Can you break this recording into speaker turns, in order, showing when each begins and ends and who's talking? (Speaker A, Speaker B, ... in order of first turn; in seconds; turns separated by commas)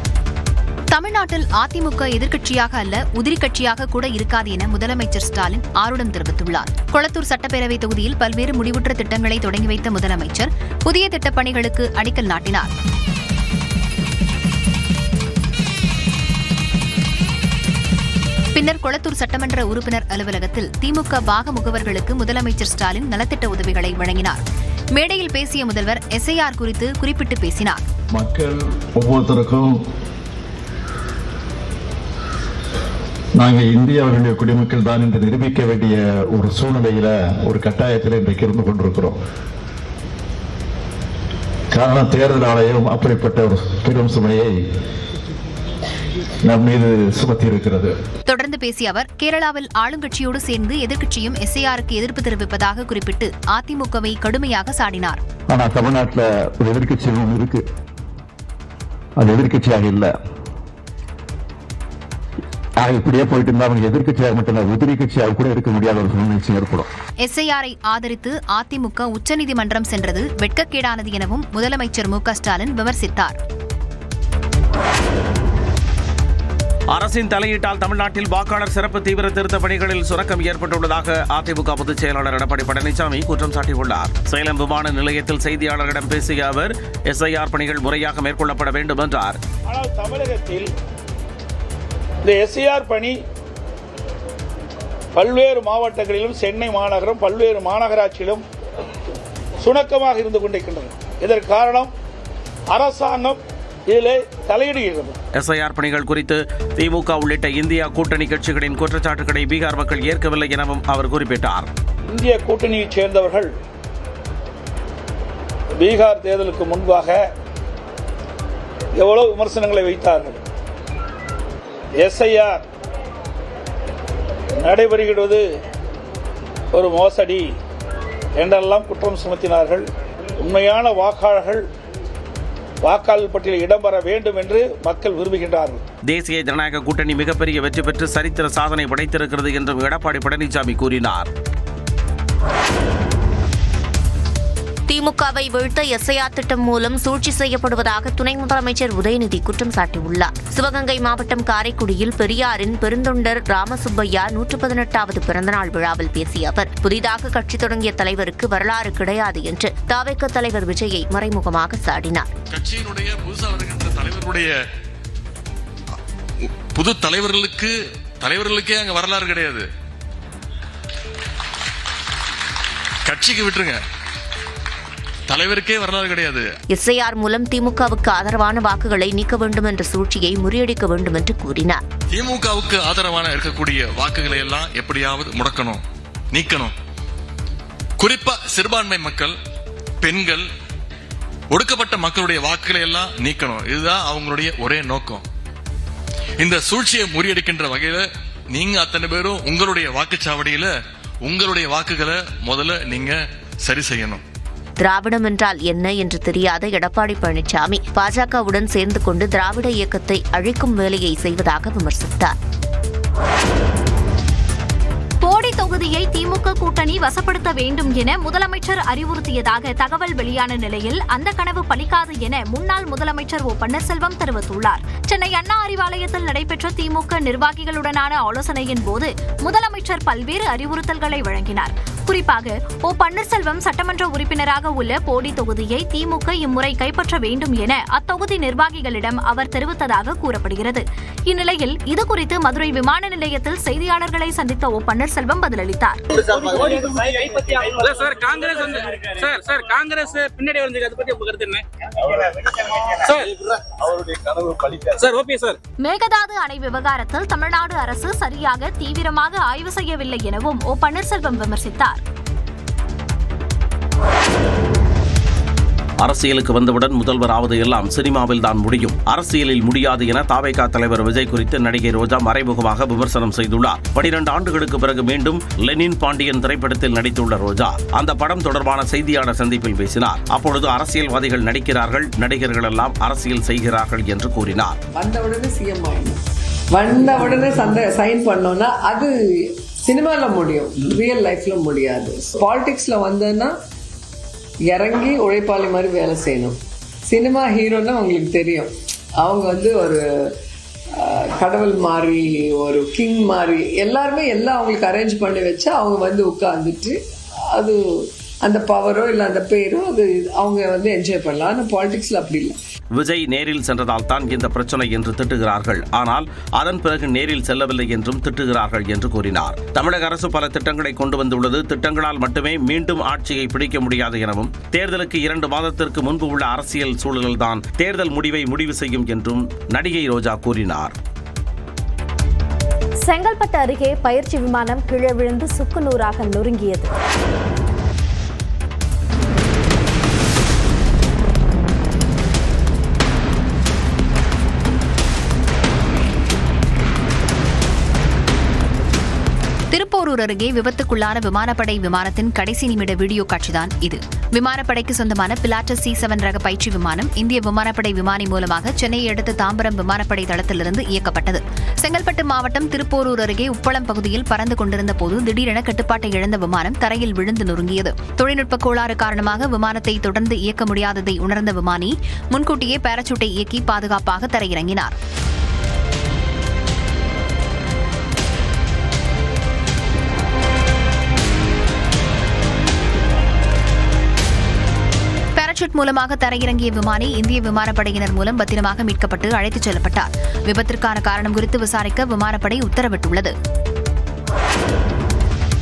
Speaker A: 0.9-12.7, Speaker A: 18.5-24.4, Speaker A: 24.9-27.8, Speaker B: 28.1-29.7, Speaker B: 33.4-39.2, Speaker B: 41.7-44.5, Speaker B: 46.5-47.9, Speaker A: 48.3-55.2, Speaker B: 55.5-57.6, Speaker B: 59.2-60.1, Speaker B: 62.8-66.9, Speaker A: 67.2-73.4, Speaker C: 76.9-89.4, Speaker D: 89.7-90.7, Speaker D: 92.2-93.2, Speaker D: 95.1-98.4, Speaker D: 99.6-101.9, Speaker D: 102.7-105.2, Speaker C: 105.4-111.7, Speaker D: 112.1-113.5, Speaker D: 115.8-117.2, Speaker D: 119.0-120.4, Speaker D: 122.0-122.6, Speaker D: 124.6-125.4, Speaker D: 126.7-127.5, Speaker D: 128.4-129.8, Speaker D: 130.4-131.6, Speaker D: 132.8-135.8, Speaker C: 136.1-141.3, Speaker E: 144.9-162.3, Speaker F: 162.5-164.6, Speaker F: 166.7-169.7, Speaker F: 173.0-173.8, Speaker F: 175.3-176.5, Speaker E: 176.7-181.8, Speaker F: 182.1-186.7, Speaker F: 188.0-189.3, Speaker F: 190.0-190.5, Speaker F: 191.5-195.2, Speaker F: 196.4-204.2, Speaker E: 204.8-212.3, Speaker G: 215.2-246.0, Speaker H: 246.6-251.5, Speaker H: 255.0-255.5, Speaker G: 255.8-262.0, Speaker C: 266.0-284.8, Speaker I: 284.9-286.2, Speaker I: 286.7-293.5, Speaker I: 294.7-300.3, Speaker I: 301.0-307.0, Speaker I: 307.6-312.6, Speaker C: 312.9-330.9, Speaker J: 333.0-336.9, Speaker A: 349.7-374.9, Speaker A: 385.4-393.3